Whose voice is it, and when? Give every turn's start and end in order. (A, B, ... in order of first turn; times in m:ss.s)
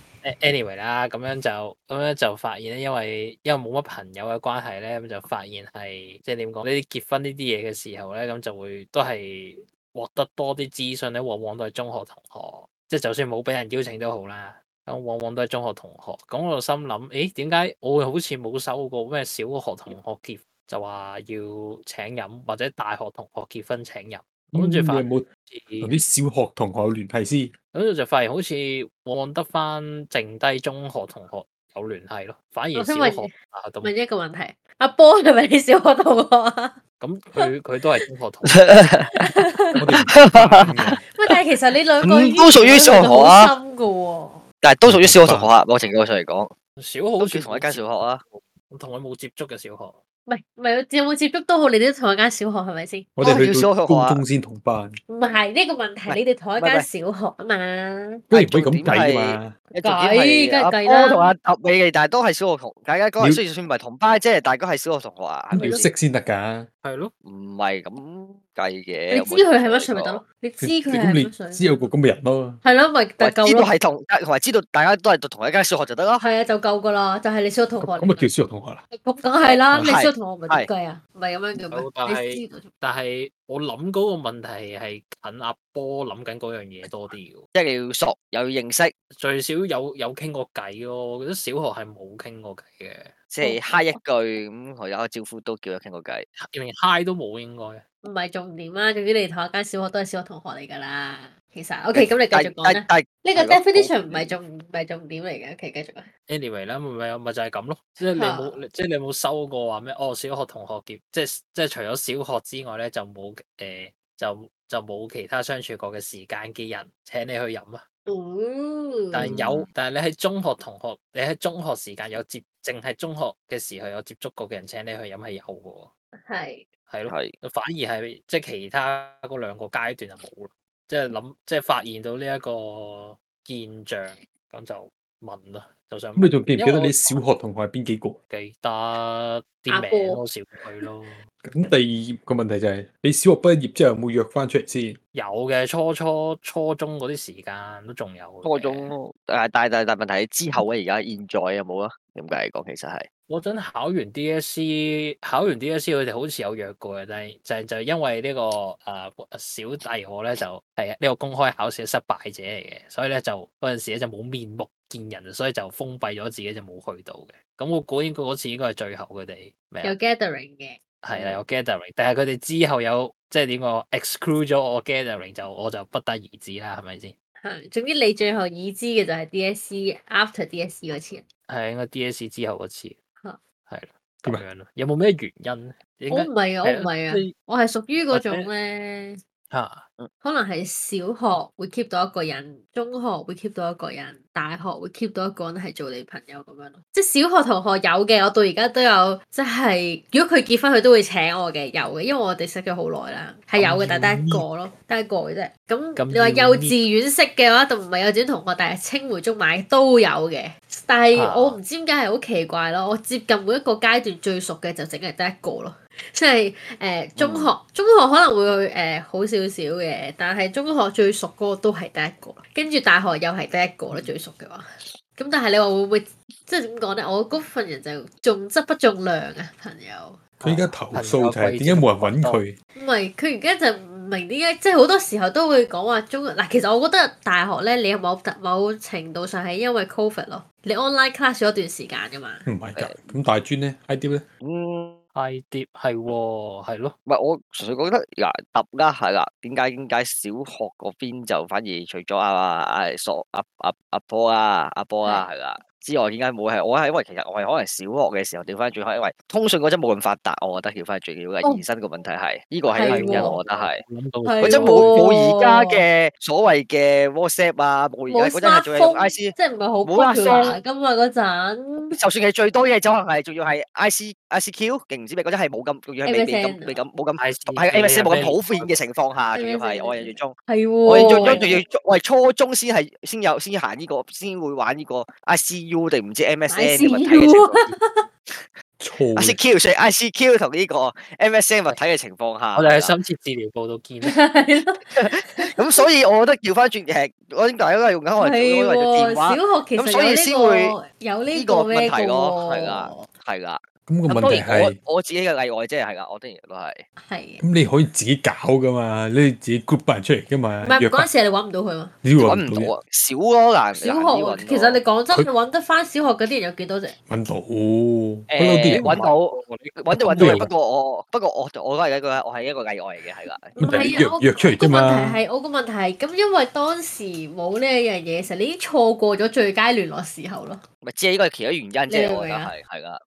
0:00.2-0:25.9 A
0:24.5-0:25.2 B
0:25.8-0:27.5 B
0:27.7-0:33.9 A
0:32.8-0:36.8 C
0:37.0-0:39.1 A
0:38.5-0:39.2 D
0:39.2-0:39.8 C
0:39.8-0:41.0 B
0:40.1-0:40.7 D
0:41.0-0:44.4 C
0:42.0-0:43.5 D
0:44.6-0:46.5 D
0:44.8-0:45.5 B
0:46.8-0:50.0 A
0:47.2-0:48.2 D
0:50.3-0:53.2 C
0:53.2-0:55.0 B
0:53.2-0:54.2 D
0:55.1-0:58.2 C
0:56.1-0:56.9 D
0:58.3-0:59.5 B
0:58.3-1:05.9 D
0:59.8-1:01.3 C
1:05.5-1:05.8 C
1:05.5-1:06.7 B
1:06.8-1:07.1 A
1:07.2-1:10.2 D
1:09.1-1:11.9 C
1:10.6-1:12.6 B
1:12.6-1:13.7 C
1:13.2-1:16.2 D
1:16.2-1:18.3 C
1:17.8-1:18.8 B
1:18.9-1:22.7 C
1:19.4-1:20.7 D
1:21.7-1:27.4 A
1:27.5-1:28.9 D
1:29.1-1:33.2 A
1:33.3-1:36.2 D
1:33.4-1:34.0 C
1:36.4-1:37.8 A
1:38.0-1:46.1 C
1:41.9-1:44.3 D
1:46.3-1:57.8 A
1:48.0-1:48.6 C
1:58.0-1:59.3 C
1:59.1-2:05.9 A
1:59.2-1:59.7 D
2:06.2-2:06.7 C
2:06.9-2:17.2 A
2:07.1-2:07.3 D
2:16.2-2:18.2 B
2:18.3-2:21.2 A
2:19.7-2:20.2 C
2:21.4-2:25.0 B
2:25.1-2:28.9 A
2:28.4-2:33.1 D
2:33.3-2:49.9 A
2:49.8-2:51.4 C
2:51.0-2:57.1 A
2:57.4-3:01.2 C
3:01.5-3:03.0 A
3:03.6-3:07.3 A
3:06.1-3:09.2 C
3:08.1-3:08.5 A
3:09.5-3:09.8 A
3:10.2-3:50.2 C
3:23.6-3:24.4 A
3:26.0-3:26.8 A
3:31.1-3:31.6 A
3:37.2-3:37.5 D
3:50.4-3:52.4 A
3:50.4-3:52.5 B
3:52.8-4:02.4 C
4:02.4-4:04.2 B
4:04.4-4:05.0 D
4:05.1-4:06.9 A
4:07.1-4:23.8 D
4:22.7-4:23.4 C
4:22.8-4:25.1 A
4:24.2-4:25.8 C
4:24.4-4:30.6 D
4:28.1-4:32.0 C
4:31.9-4:40.3 D
4:36.0-4:36.8 C
4:37.2-4:38.7 A
4:39.3-4:41.6 C
4:40.8-4:47.7 D
4:40.9-4:41.5 A
4:46.5-4:48.1 C
4:48.8-4:49.4 B
4:49.2-4:52.9 D
4:52.5-4:54.2 A
4:54.0-4:55.8 C
4:55.0-5:00.7 D
4:58.2-5:03.1 C
5:01.3-5:06.8 D
5:03.8-5:04.7 B
5:07.0-5:07.4 C
5:07.4-5:11.1 B
5:10.6-5:12.0 C
5:12.0-5:12.7 B
5:12.2-5:14.8 D
5:13.8-5:17.0 C
5:17.1-5:19.0 B
5:18.3-5:23.8 D
5:18.7-5:20.5 A
5:19.9-5:20.4 B
5:23.5-5:30.6 C
5:23.6-5:25.2 B
5:30.8-5:33.0 D
5:31.9-5:32.5 C